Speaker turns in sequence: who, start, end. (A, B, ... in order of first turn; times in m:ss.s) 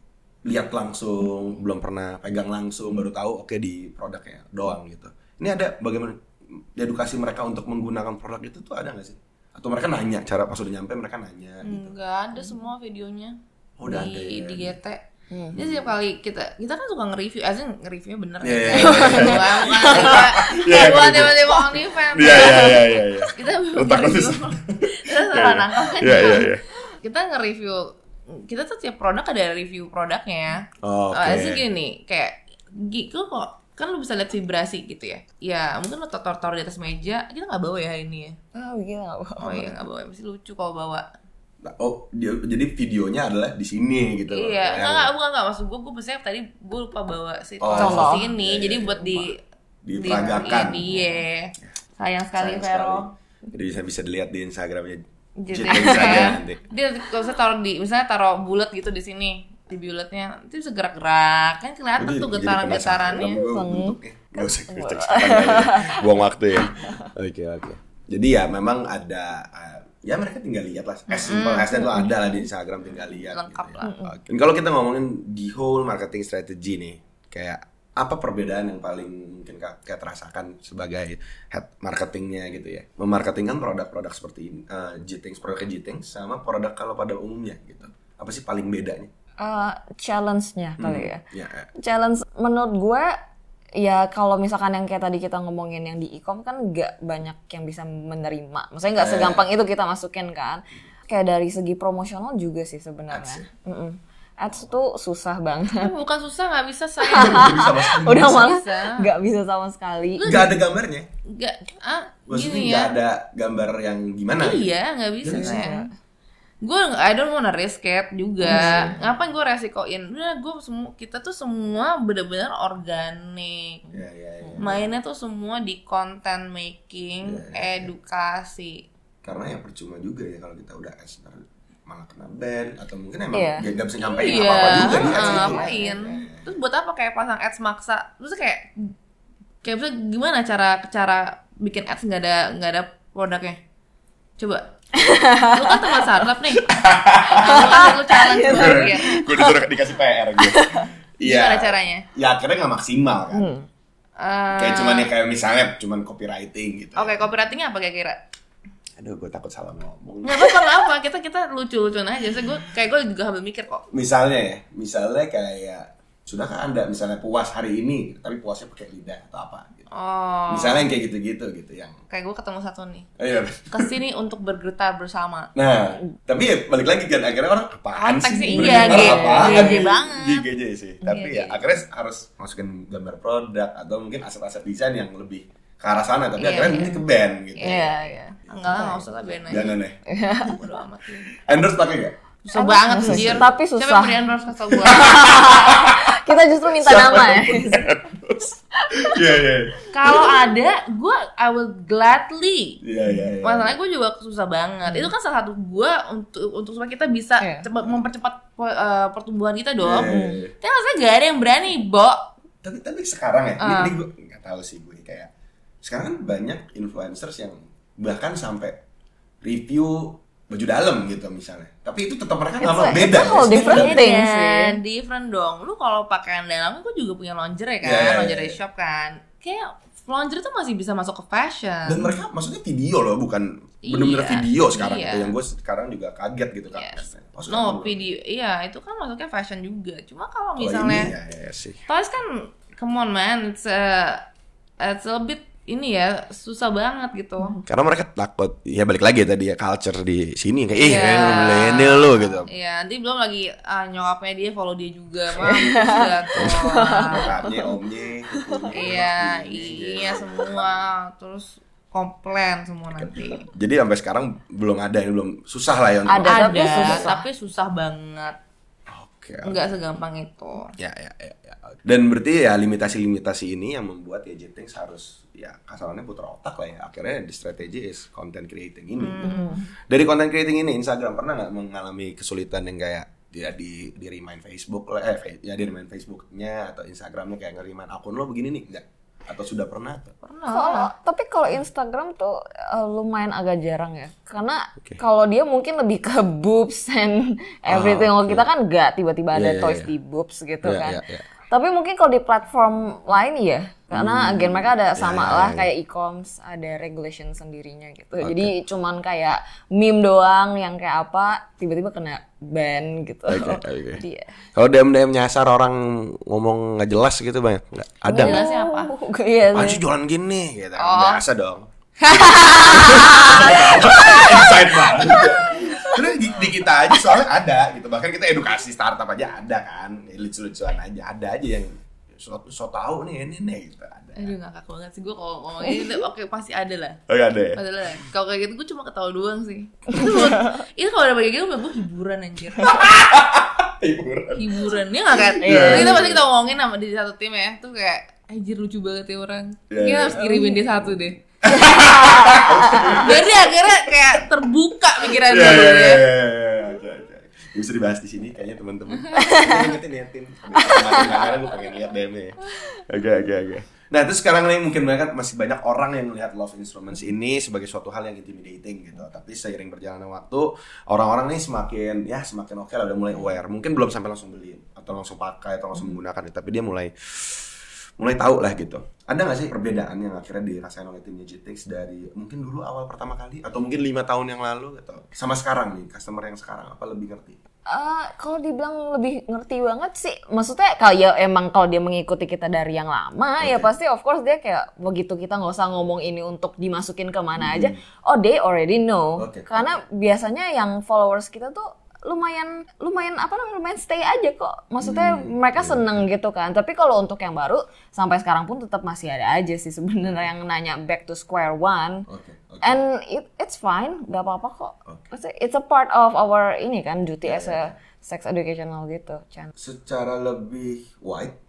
0:00.4-0:11.9 A
0:11.6-0:15.0 B
0:13.8-0:14.8 A
0:15.5-0:16.0 A
0:15.5-0:38.4 B
0:18.4-0:26.6 A
0:18.7-0:20.6 C
0:22.3-0:22.8 C
0:30.8-0:31.6 A
0:38.6-0:39.8 C
0:39.4-0:41.1 B
0:41.6-0:45.1 A
0:44.3-0:49.4 B
0:47.6-0:49.3 A
0:47.8-0:48.3 C
0:49.8-0:51.1 A
0:50.0-0:53.1 B
0:52.4-0:56.6 A
0:55.4-1:03.4 B
0:55.7-0:56.4 C
1:02.0-1:29.1 A
1:03.2-1:06.1 C
1:11.1-1:11.9 B
1:13.1-1:14.0 B
1:13.8-1:14.1 C
1:29.4-1:31.2 C
1:30.8-1:31.7 A
1:31.8-1:33.2 C
1:33.8-1:45.9 C
1:39.0-1:39.4 A
1:43.1-1:43.5 A
1:45.8-1:49.1 B
1:47.1-1:50.3 C
1:47.1-1:48.5 A
1:50.2-1:50.6 B
1:50.2-1:51.1 A
1:51.3-1:52.9 B
1:52.3-1:54.7 A
1:54.4-1:55.9 B
1:55.2-1:55.6 A
1:55.3-1:55.9 C
1:56.6-2:03.8 B
1:58.5-1:59.0 C
1:58.5-1:59.0 A
2:03.9-2:05.0 A
2:04.6-2:08.8 B
2:07.2-2:07.9 A
2:09.2-2:16.6 A
2:13.3-2:13.7 C
2:14.0-2:18.9 B
2:14.4-2:16.2 C
2:19.6-2:23.6 B
2:24.4-2:26.8 B
2:25.0-2:26.0 C
2:26.6-2:33.5 A
2:27.3-2:29.2 B
2:27.4-2:29.6 C
2:30.4-2:30.9 C
2:31.2-2:32.1 B
2:33.3-2:33.7 C
2:34.2-2:35.1 B
2:34.6-2:37.3 A
2:37.0-2:38.2 B
2:39.0-2:40.6 A
2:40.2-2:43.9 B
2:43.9-2:49.9 A
2:49.9-2:50.9 B
2:50.5-2:52.0 A
2:52.1-2:53.1 B
2:53.2-2:54.0 A
2:53.7-2:55.5 B
2:55.6-3:07.9 A
2:58.0-3:00.5 B
2:58.4-2:59.9 C
3:01.0-3:01.8 B
3:06.4-3:07.0 B
3:06.7-3:07.0 C
3:07.6-3:09.8 B
3:07.6-3:08.4 C
3:08.5-3:10.0 A
3:10.1-3:10.6 C
3:10.3-3:11.3 B
3:11.3-3:12.2 A
3:12.4-3:15.7 B
3:12.6-3:17.9 C
3:13.0-3:13.5 A
3:14.8-3:16.2 A
3:16.7-3:19.9 A
3:18.8-3:19.2 C
3:19.9-3:22.8 B
3:22.8-3:23.8 A
3:23.4-3:32.2 B
3:24.8-3:25.1 C
3:27.4-3:27.7 C
3:29.8-3:30.5 A
3:30.0-3:30.4 C
3:32.6-3:35.3 A
3:33.6-3:34.0 B
3:35.8-3:38.8 A
3:39.4-3:44.1 A
3:42.6-3:44.8 C
3:43.5-3:52.1 B
3:47.8-3:48.6 A
3:51.8-3:58.1 A
3:53.9-3:55.4 B
3:56.7-4:01.1 B
4:00.6-4:01.8 A
4:01.9-4:04.3 B
4:04.8-4:07.6 B
4:07.6-4:12.5 A
4:10.8-4:17.3 B
4:15.4-4:17.7 C
4:16.4-4:20.8 A
4:18.3-4:18.7 C
4:18.7-4:23.5 B
4:23.0-4:27.1 A
4:26.1-4:27.2 C
4:26.2-4:28.4 B
4:28.9-4:29.7 A
4:29.4-4:30.8 B
4:30.8-4:50.2 A
4:39.0-4:39.6 B
4:39.2-4:39.7 C
4:50.2-4:50.9 B
4:50.5-5:14.3 C
4:57.7-4:58.4 A
4:59.3-4:59.9 A
5:00.6-5:01.3 A
5:03.9-5:05.7 A
5:08.2-5:08.5 A
5:13.3-5:14.0 A
5:14.6-5:18.4 A
5:18.1-5:19.8 C
5:18.1-5:18.9 B
5:19.5-5:34.3 A
5:20.8-5:21.2 B
5:22.0-5:26.0 B
5:23.5-5:26.0 C
5:34.2-5:37.0 B
5:37.1-5:37.6 A
5:37.6-5:42.8 B
5:39.9-5:40.5 C
5:42.6-5:46.2 A
5:44.4-5:51.2 B
5:45.4-5:46.1 C
5:49.7-5:50.3 A
5:50.2-5:50.6 C
5:51.4-5:54.2 A
5:51.7-5:53.0 C
5:52.9-5:56.1 B
5:55.0-6:27.4 A
5:59.1-5:59.7 C
6:00.5-6:01.3 C
6:27.7-6:52.1 C
6:33.4-6:33.7 A
6:37.4-6:37.8 A
6:39.2-6:39.7 A
6:44.8-6:46.0 A
6:52.1-6:52.8 A
6:52.6-6:59.5 C
6:54.9-6:55.1 A
6:57.2-6:57.8 A
6:59.6-7:01.4 A